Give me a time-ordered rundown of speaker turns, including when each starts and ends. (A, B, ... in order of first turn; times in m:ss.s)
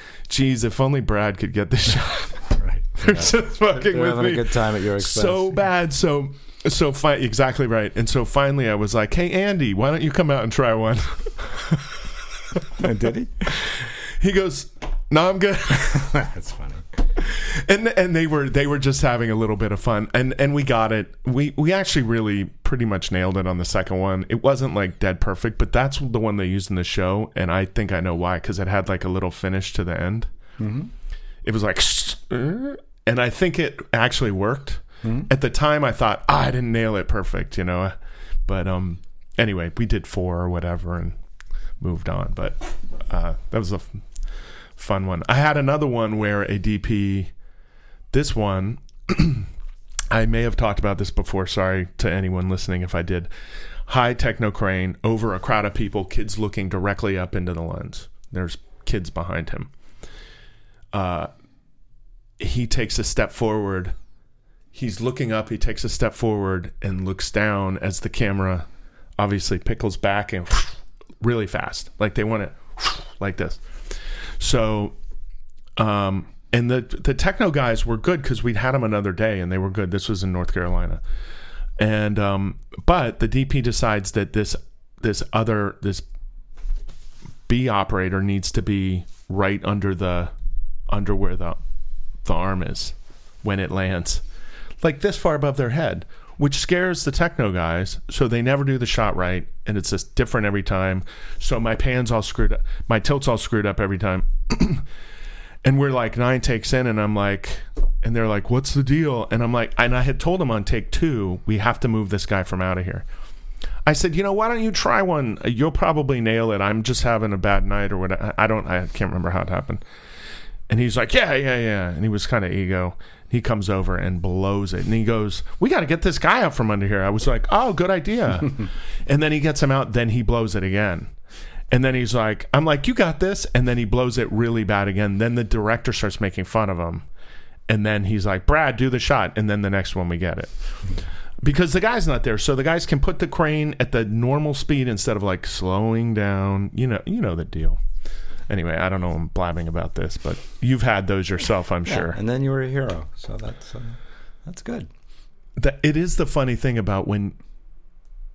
0:00.3-0:12.8 A
0:02.5-0:05.6 B
0:12.8-0:13.6 B
0:13.4-0:16.1 A
0:15.7-0:16.8 B
0:17.2-0:30.3 A
0:30.6-0:30.9 B
0:31.4-0:37.9 A
0:35.0-0:35.3 B
0:38.4-0:41.2 A
0:41.8-0:44.0 A
0:44.8-0:47.3 A
0:48.1-0:49.5 A
0:50.1-0:53.3 A
0:53.9-0:59.7 A
1:00.9-1:01.3 A
1:02.4-1:03.9 A
1:04.7-1:08.6 A
1:09.2-1:13.6 A
1:14.4-1:14.9 A
1:15.8-1:21.0 A
1:21.8-1:26.0 A
1:27.5-1:30.3 A
1:30.9-1:31.6 A
1:32.2-1:34.2 A
1:34.8-1:44.8 A
1:45.6-1:53.0 A
1:53.8-1:59.8 A
2:00.7-2:11.1 A
2:11.7-2:17.0 A
2:17.7-2:20.5 A
2:21.4-2:27.8 A
2:28.5-2:32.2 A
2:31.8-2:34.9 B
2:35.6-2:37.4 A